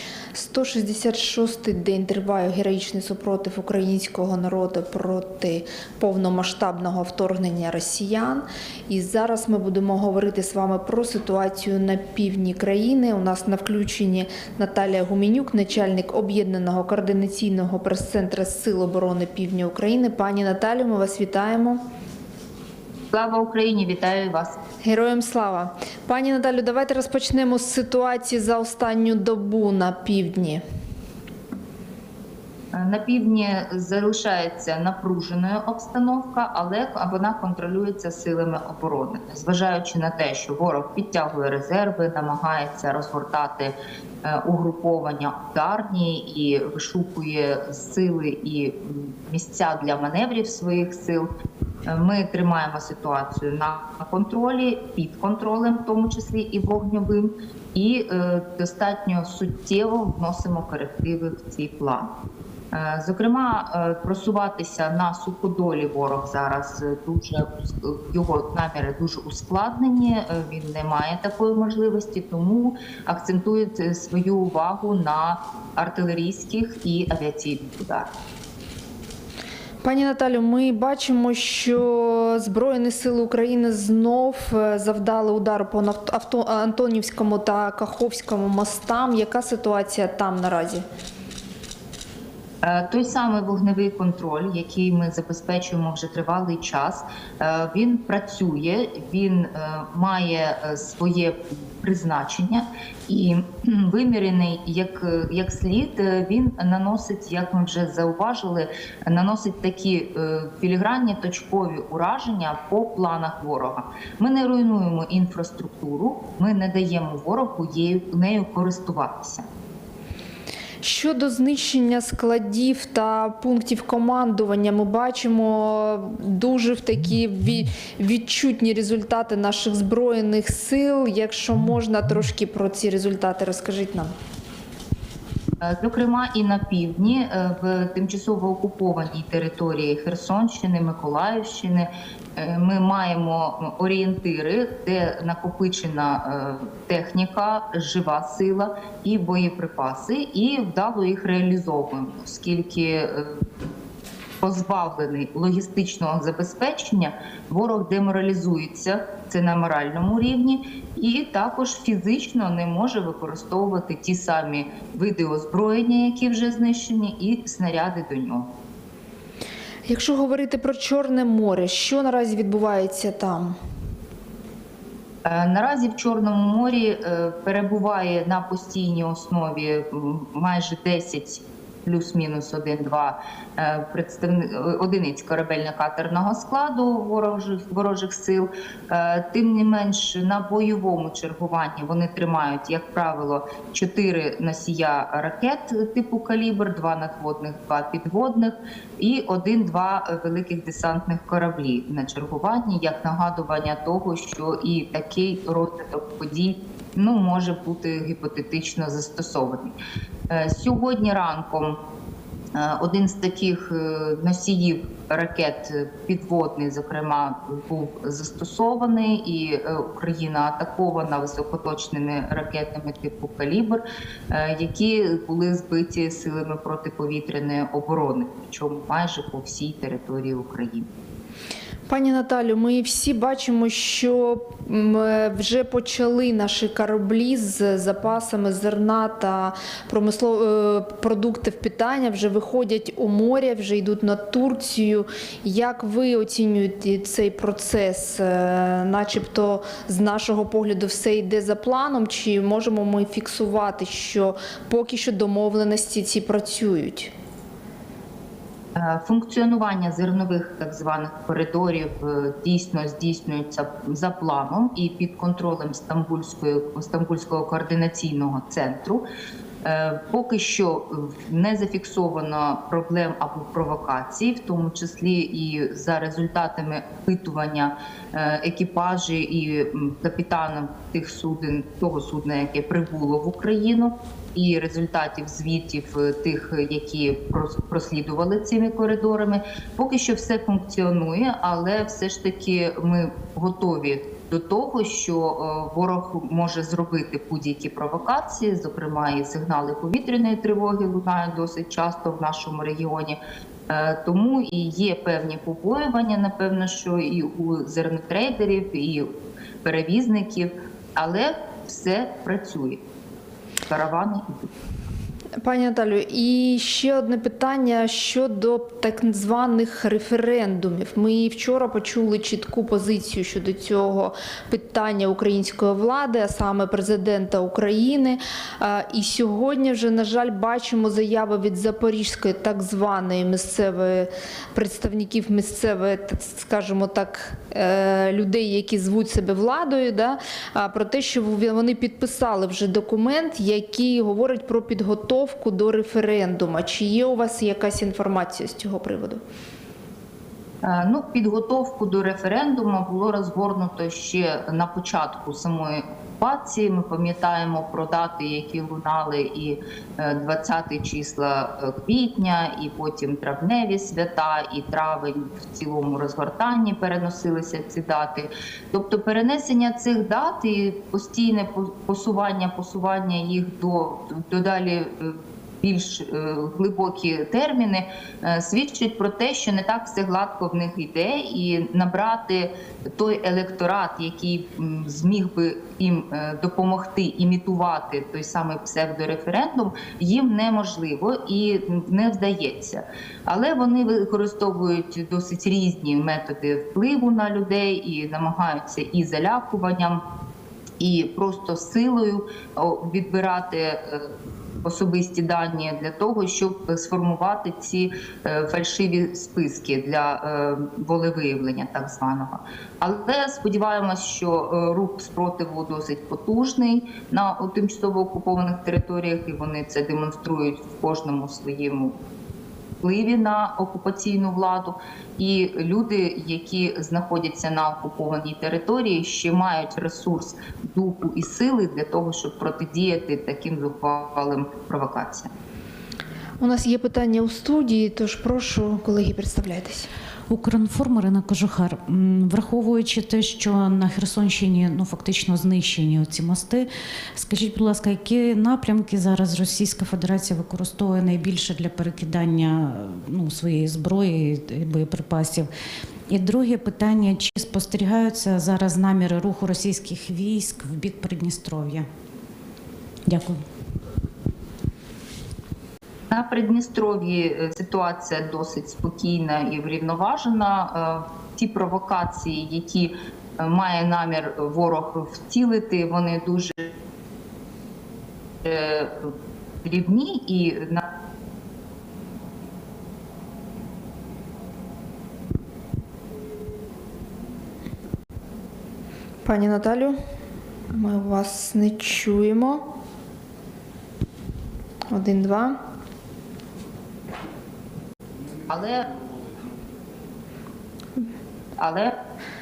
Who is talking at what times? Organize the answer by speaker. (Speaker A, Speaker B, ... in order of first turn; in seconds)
Speaker A: 0.3-21.8, 24.8-30.6, 79.8-90.8, 120.8-134.1, 169.8-173.6, 231.9-257.1, 315.4-349.2, 436.4-439.9, 489.2-489.9, 490.7-492.6, 494.9-495.5
Speaker B: 23.1-24.6, 32.7-51.3, 51.9-62.1, 62.7-78.1, 92.6-119.4, 135.6-153.4, 154.4-168.5, 175.2-209.7, 210.3-211.8, 212.5-230.9, 258.8-269.0, 269.6-309.1, 309.6-312.8, 313.7-314.5, 350.6-400.0, 400.8-404.1, 404.6-421.9, 422.8-435.3, 466.1-476.7, 478.4-479.1, 479.6-480.8, 498.5-498.9, 501.6-501.9
Speaker C: 440.3-455.5, 456.1-461.8, 463.1-463.4